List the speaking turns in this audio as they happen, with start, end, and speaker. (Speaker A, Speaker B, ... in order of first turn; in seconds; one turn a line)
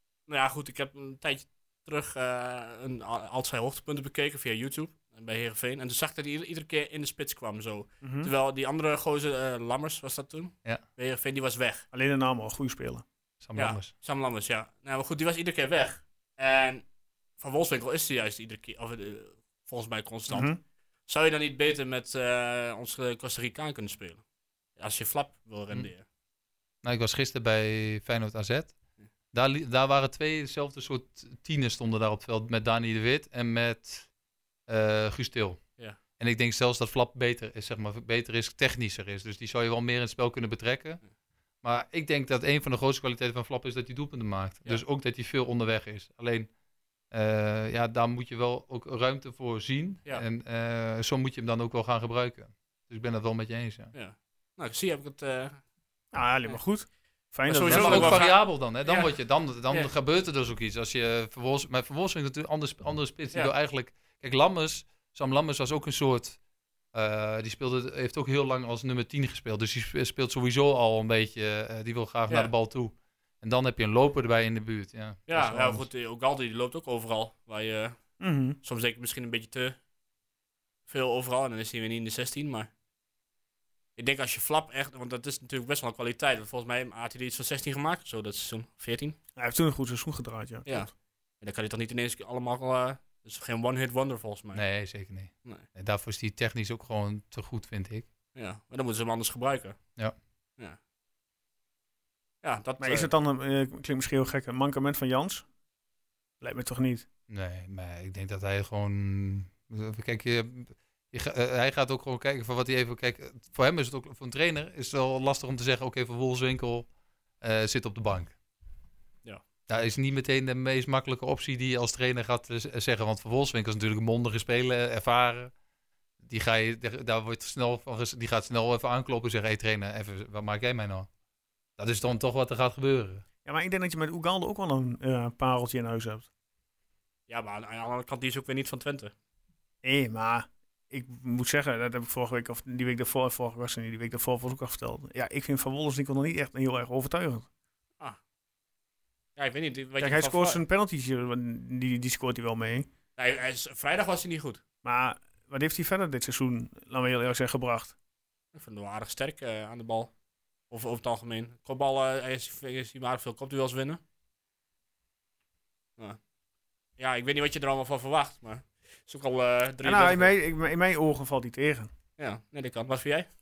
Speaker A: 0.3-11.8
Speaker B: 8.0-8.3
Speaker B: 11.9-13.0
Speaker C: 13.4-13.9
Speaker A: 13.5-16.8
Speaker A: 17.4-20.5
Speaker B: 20.3-20.6
Speaker A: 21.1-24.2
Speaker A: 24.8-26.0
Speaker C: 26.8-28.7
Speaker C: 29.3-34.1
Speaker C: 34.7-35.6
Speaker C: 36.2-41.0
Speaker C: 41.6-46.5
Speaker C: 47.1-53.9
Speaker A: 53.9-55.6
Speaker B: 56.1-58.2
Speaker A: 57.5-59.1
Speaker C: 57.6-66.4
Speaker C: 66.9-75.9
Speaker A: 75.3-79.8
Speaker B: 78.2-78.6
Speaker A: 80.9-82.7
Speaker A: 84.0-89.2
Speaker B: 89.4-90.9
Speaker A: 91.4-94.7
Speaker C: 94.5-98.1
Speaker A: 98.3-99.8
Speaker A: 102.4-103.1
Speaker B: 102.8-105.5
Speaker B: 106.4-107.0
Speaker C: 107.3-116.9
Speaker C: 117.4-118.3
Speaker C: 119.7-125.5
Speaker C: 126.2-131.1
Speaker C: 131.8-133.2
Speaker B: 133.4-136.3
Speaker A: 137.3-139.1
Speaker B: 139.8-147.5
Speaker A: 149.3-150.6
Speaker B: 150.0-152.9
Speaker A: 153.2-154.6
Speaker B: 154.8-157.9
Speaker A: 158.5-160.1
Speaker A: 160.7-164.0
Speaker A: 167.0-170.3
Speaker B: 169.8-171.9
Speaker A: 172.2-173.3